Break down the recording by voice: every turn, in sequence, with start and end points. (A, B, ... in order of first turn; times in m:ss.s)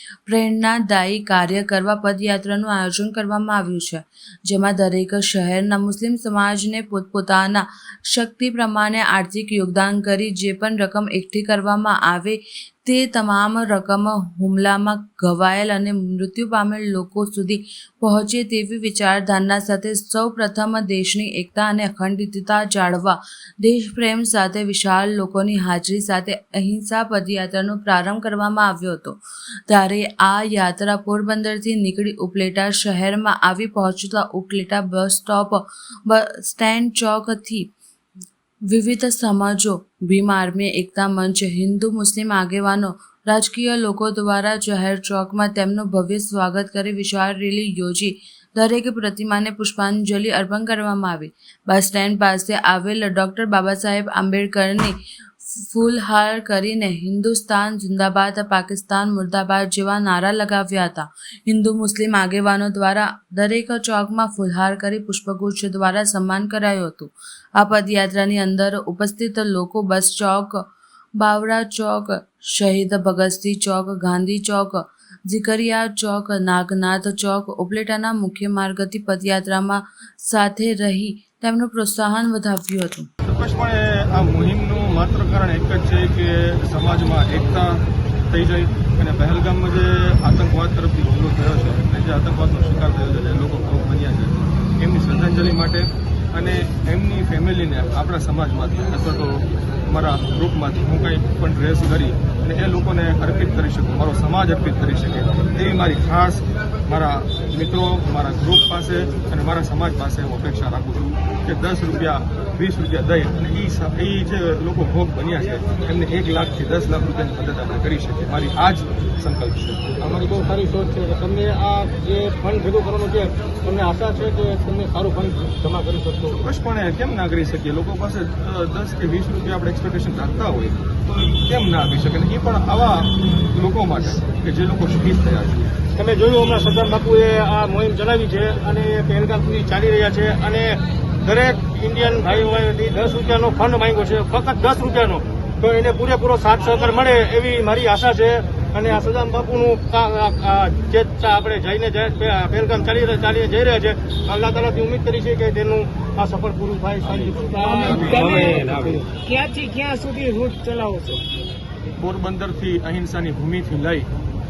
0:00.3-0:37.7 A
0:38.7-0:55.0 A
0:55.5-1:10.6 A
1:11.2-1:23.1 A
1:23.2-2:00.4 B
2:00.0-2:06.4 C
2:06.4-2:15.7 B
2:16.0-2:39.0 C
2:37.1-2:38.7 B
2:37.5-2:41.2 D
2:42.0-2:44.1 B